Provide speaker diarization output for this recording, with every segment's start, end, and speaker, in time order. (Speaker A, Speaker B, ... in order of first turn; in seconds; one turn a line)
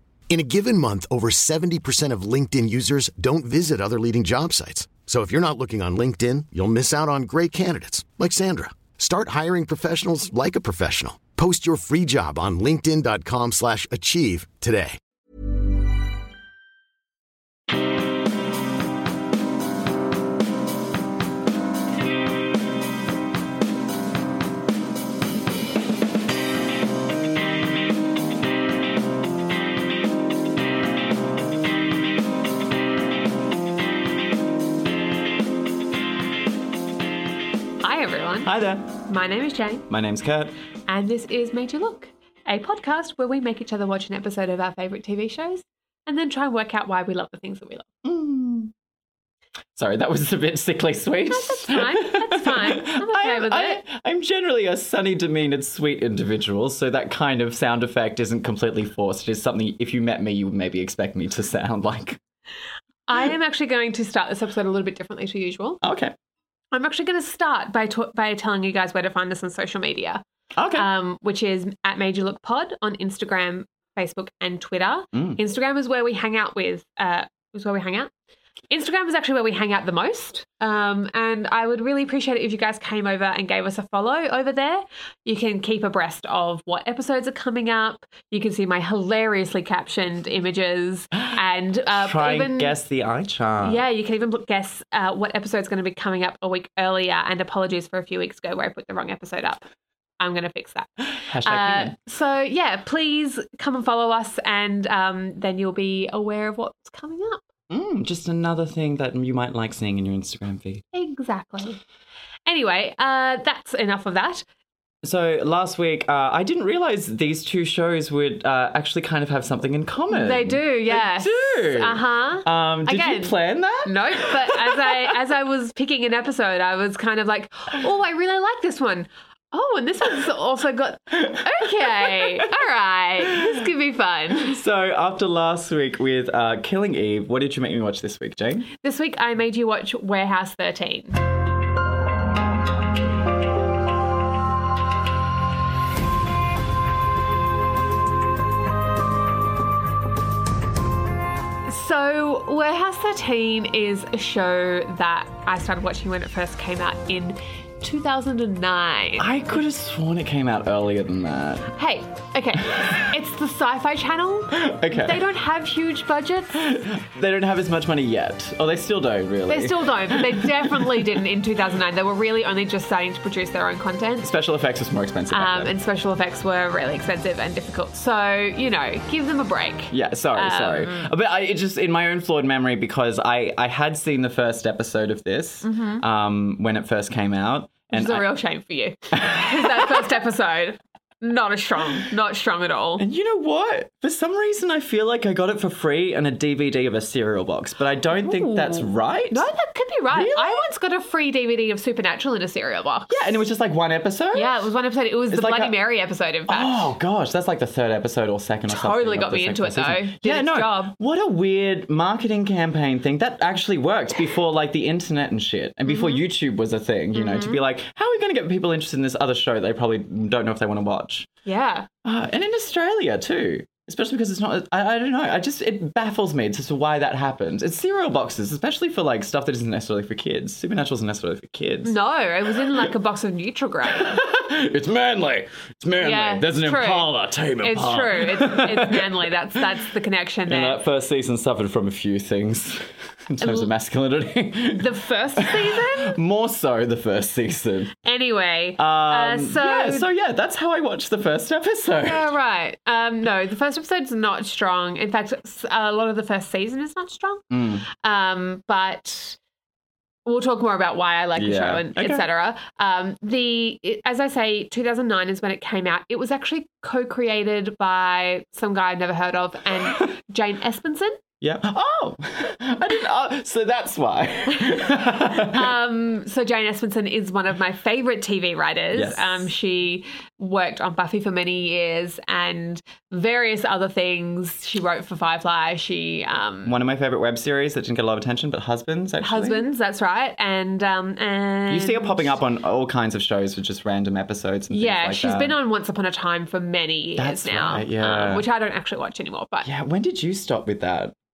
Speaker A: 0.3-15.0
Speaker B: 37.8-38.5
Speaker C: 38.4-38.9
Speaker B: 39.0-39.9
Speaker C: 39.9-40.5
Speaker B: 40.9-47.9
Speaker C: 48.0-48.7
Speaker C: 49.8-62.2
Speaker B: 51.3-53.8
Speaker B: 63.1-65.8
Speaker C: 65.8-66.1
Speaker B: 66.7-78.1
Speaker C: 70.5-70.9
Speaker C: 75.1-75.4
Speaker B: 78.7-92.7
Speaker C: 91.9-93.8
Speaker B: 93.6-99.6
Speaker B: 100.2-107.4
Speaker C: 101.2-101.9
Speaker C: 107.7-110.8
Speaker B: 110.9-111.8
Speaker B: 112.5-114.4
Speaker C: 115.0-124.9
Speaker B: 120.1-134.6
Speaker C: 131.3-132.4
Speaker C: 134.4-138.7
Speaker B: 138.8-141.2
Speaker B: 151.7-159.3
Speaker C: 159.2-161.7
Speaker B: 161.7-166.6
Speaker C: 164.5-165.2
Speaker C: 166.5-170.9
Speaker B: 169.5-174.3
Speaker C: 174.2-175.7
Speaker B: 175.3-181.1
Speaker C: 179.9-188.3
Speaker B: 185.6-186.0
Speaker B: 187.9-193.0
Speaker C: 189.2-190.0
Speaker C: 193.0-199.5
Speaker B: 198.1-203.3
Speaker C: 200.1-200.7
Speaker C: 203.1-204.7
Speaker B: 204.3-206.9
Speaker C: 205.3-205.7
Speaker C: 206.5-221.3
Speaker B: 208.7-210.9
Speaker B: 215.9-216.2
Speaker B: 217.1-217.6
Speaker B: 221.4-221.9
Speaker C: 222.0-231.9
Speaker B: 231.8-234.2
Speaker C: 233.9-239.3
Speaker B: 236.0-237.1
Speaker B: 237.6-240.8
Speaker C: 240.5-247.9
Speaker B: 243.4-243.7
Speaker B: 244.7-246.2
Speaker B: 248.0-250.1
Speaker C: 248.8-252.3
Speaker B: 252.0-259.4
Speaker C: 257.5-257.9
Speaker B: 260.2-271.2
Speaker C: 261.4-262.2
Speaker C: 271.4-275.7
Speaker B: 275.3-286.8
Speaker C: 278.9-279.5
Speaker C: 286.6-289.6
Speaker B: 289.2-292.3
Speaker C: 291.7-295.6
Speaker B: 294.7-299.7
Speaker C: 297.2-298.4
Speaker C: 299.6-301.1